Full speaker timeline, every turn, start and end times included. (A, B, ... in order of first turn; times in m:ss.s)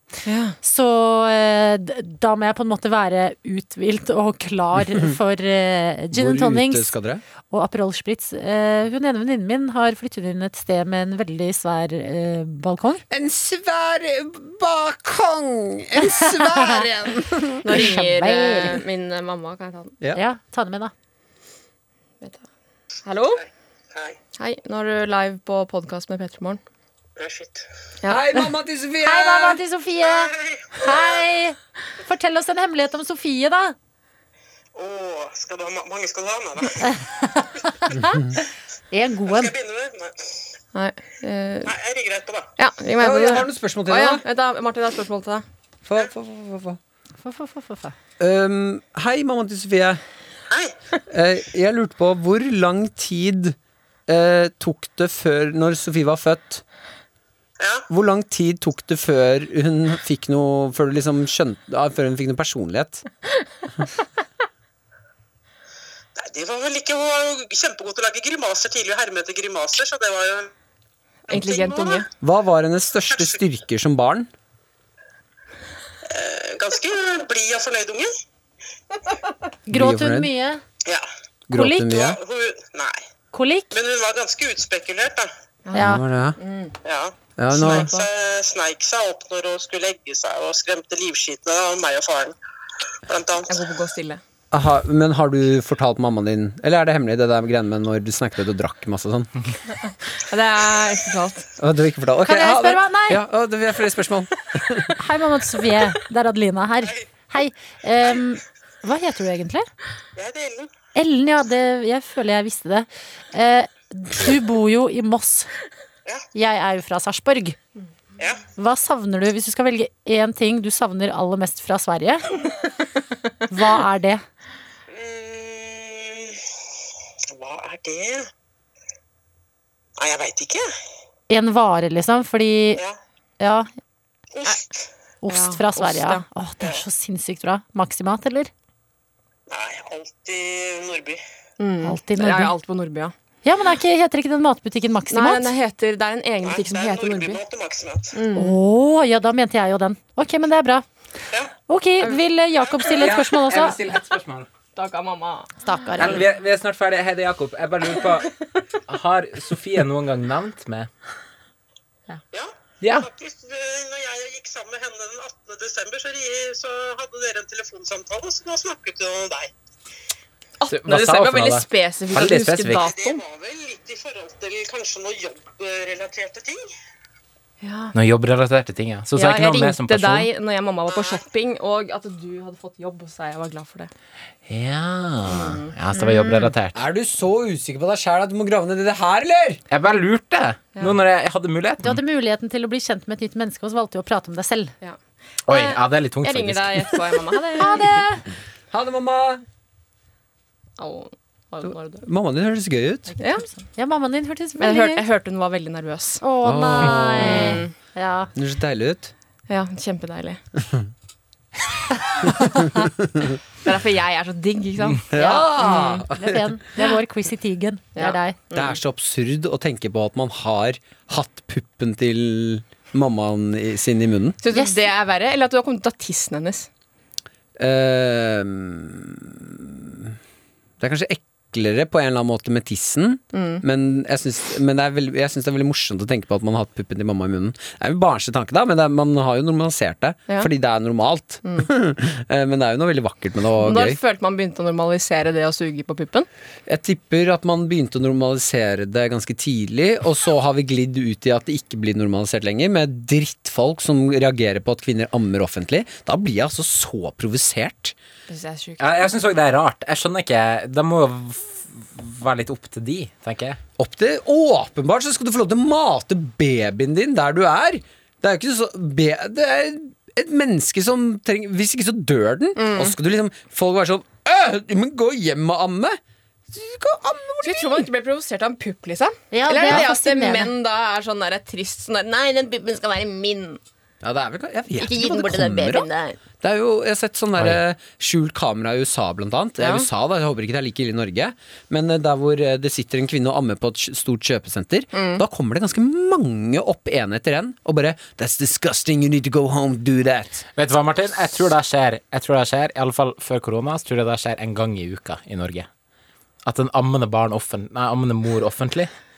0:00.2-0:00.6 A
0:00.6-0:06.9 B
0:06.1-0:07.2 C
0:07.5-0:13.0 B
0:13.1-0:17.9 C
0:16.5-0:16.8 B
0:17.6-0:20.0 A
0:17.8-0:18.8 B
0:20.1-0:20.9 B
0:23.0-0:23.4 A
0:24.4-0:26.6 A
0:27.2-0:27.6 D
0:28.1-0:29.6 C
0:29.0-0:30.3 B
0:30.0-0:31.1 D
0:30.8-0:33.8 B
0:34.8-0:37.0 D
0:36.9-0:38.2 B
0:38.9-0:39.5 B
0:39.2-0:40.2 D
0:40.7-0:41.7 A
0:41.6-0:42.5 D
0:42.6-0:45.4 A
0:43.0-0:44.2 C
0:45.8-0:46.8 C
0:47.2-0:47.9 B
0:48.2-0:50.0 C
0:51.1-0:53.6 C
0:54.1-0:56.6 C
0:57.6-0:57.8 D
0:57.9-1:03.0 C
1:06.2-1:10.5 D
1:11.3-1:12.0 D
1:11.3-1:12.1 A
1:12.2-1:14.3 C
1:16.1-1:18.1 D
1:19.7-1:20.6 B
1:19.7-1:20.3 C
1:21.5-1:22.2 C
1:21.6-1:21.8 B
1:21.8-1:23.0 D
1:23.3-1:23.7 B
1:23.7-1:25.3 D
1:25.6-1:26.7 A
1:25.7-1:26.4 C
1:26.8-1:27.2 D
1:27.4-1:27.9 C
1:27.5-1:28.1 A
1:27.7-1:32.4 D
1:33.1-1:33.6 D
1:33.5-1:34.2 A
1:34.5-1:39.3 C
1:40.3-1:41.4 A
1:41.6-1:44.9 C
1:42.2-1:43.2 B
1:45.0-1:49.7 B
1:50.2-1:50.7 D
1:50.9-1:55.5 B
1:56.3-1:57.6 B
1:58.2-1:58.5 D
1:58.5-2:02.4 B
2:03.5-2:04.2 B
2:04.9-2:06.4 D
2:07.3-2:08.3 D
2:10.0-2:10.7 D
2:11.3-2:12.8 B
2:13.4-2:13.7 B
2:14.3-2:14.8 D
2:15.2-2:18.5 B
2:15.3-2:16.2 A
2:19.5-2:21.2 D
2:21.6-2:23.1 A
2:21.8-2:22.5 B
2:23.4-2:25.5 B
2:25.1-2:27.4 A
2:26.4-2:28.1 D
2:28.1-2:28.6 A
2:28.3-2:30.8 B
2:31.6-2:33.8 B
2:32.8-2:34.5 E
2:34.8-2:36.0 A
2:35.6-2:36.3 B
2:36.0-2:38.3 E
2:38.8-2:40.9 E
2:42.3-2:49.5 D
2:42.8-2:43.1 E
2:50.6-2:53.2 A
2:50.7-2:52.9 E
2:52.8-2:56.7 D
2:57.6-2:57.9 A
2:57.9-3:00.3 E
2:59.1-3:03.9 A
3:04.5-3:06.8 E
3:05.3-3:05.7 A
3:06.0-3:06.5 B
3:06.7-3:09.6 C
3:09.7-3:12.0 E
3:11.8-3:14.7 B
3:14.8-3:18.0 A
3:15.5-3:17.1 E
3:17.6-3:18.2 B
3:18.7-3:19.4 C
3:20.8-3:22.0 A
3:22.0-3:23.1 C
3:23.1-3:25.0 B
3:23.2-3:23.5 A
3:24.6-3:26.2 A
3:26.2-3:28.3 B
3:26.4-3:27.7 C
3:26.8-3:27.7 A
3:28.3-3:29.1 C
3:29.5-3:30.4 A
3:32.3-3:32.6 C
3:33.6-3:36.0 A
3:35.1-3:36.5 C
3:35.2-3:38.4 B
3:36.8-3:37.0 A
3:38.0-3:38.8 A
3:38.5-3:44.4 C
3:44.4-3:46.7 A
3:44.5-3:44.8 B
3:47.6-3:50.2 C
3:50.8-4:04.0 C
3:53.3-3:53.6 A
4:03.6-4:06.3 A
4:06.7-4:18.0 C
4:18.3-4:18.9 A
4:18.8-4:23.6 E
4:23.8-4:36.0 C
4:32.6-4:33.0 A
4:36.5-4:37.9 C
4:37.4-4:43.6 A
4:39.3-4:40.5 B
4:44.0-4:45.9 C
4:44.8-4:46.2 A
4:46.4-5:00.4 C
4:49.6-4:49.9 A
4:54.9-4:55.2 A
5:00.5-5:05.7 E
5:06.4-5:08.9 E